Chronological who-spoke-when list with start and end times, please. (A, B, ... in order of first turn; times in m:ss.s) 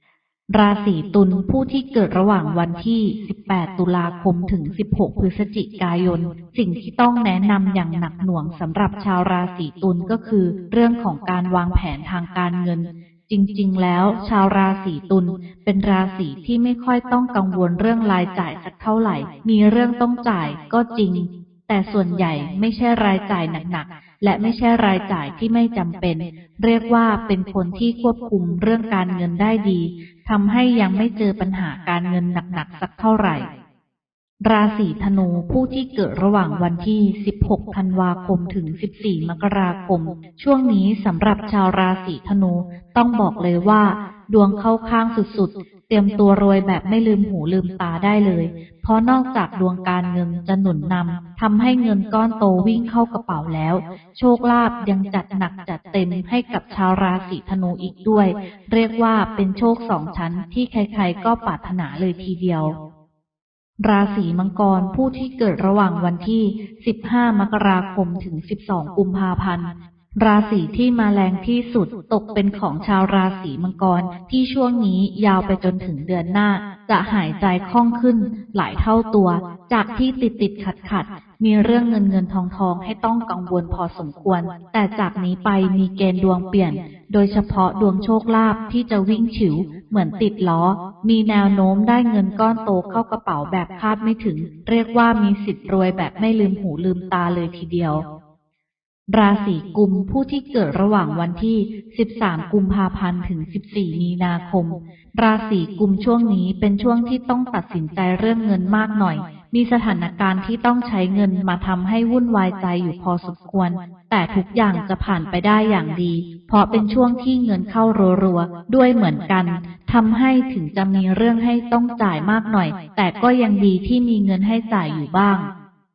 0:00.5-0:33.5 A
0:34.4-1:02.8 A
1:03.8-1:38.0 A
1:39.1-2:05.5 A